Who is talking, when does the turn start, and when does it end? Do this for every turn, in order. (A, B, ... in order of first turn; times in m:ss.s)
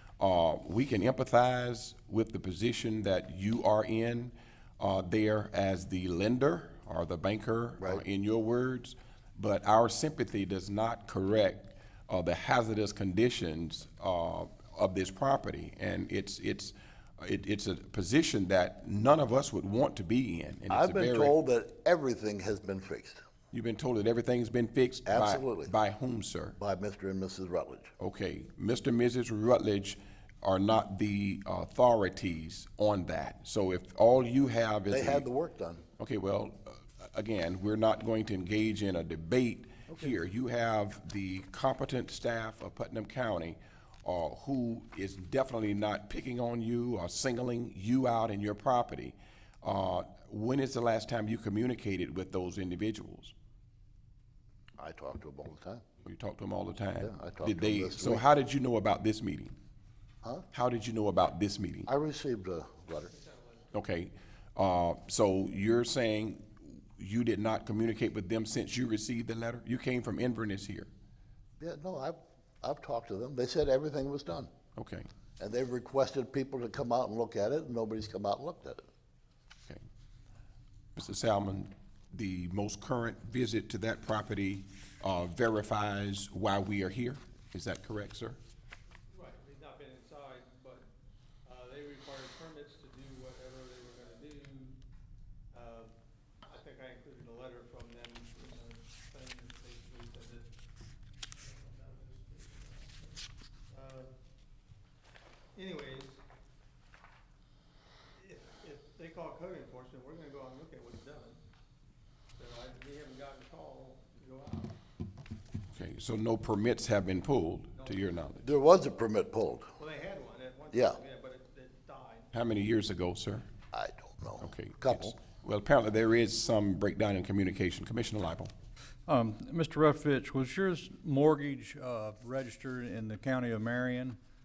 0:00.2-0:21.3 A
0:07.8-0:08.0 B
0:20.7-0:23.2 B
0:23.5-0:26.6 A
0:25.0-0:25.7 B
0:26.6-0:27.9 B
0:28.0-0:35.2 A
0:34.9-0:35.8 B
0:36.0-0:53.3 A
0:54.8-0:55.8 B
0:56.0-0:59.5 A
0:57.0-0:58.2 B
1:00.5-1:01.9 A
1:01.8-1:03.1 B
1:03.1-1:03.7 C
1:03.7-1:10.9 A
1:11.6-1:14.5 B
1:14.8-1:15.1 A
1:15.4-1:18.8 B
1:21.0-1:28.4 A
1:29.1-1:30.9 C
1:31.4-1:34.8 C
1:35.5-1:35.9 C
1:36.4-1:40.5 C
1:41.4-1:44.1 C
1:45.5-1:46.2 C
1:48.2-1:51.4 C
1:52.4-1:54.8 C
1:55.7-1:58.4 A
1:58.4-1:59.7 B
1:59.8-2:02.3 C
2:00.7-2:01.0 B
2:02.3-2:03.5 A
2:03.7-2:05.1 B
2:04.4-2:08.5 A
2:09.1-2:14.2 D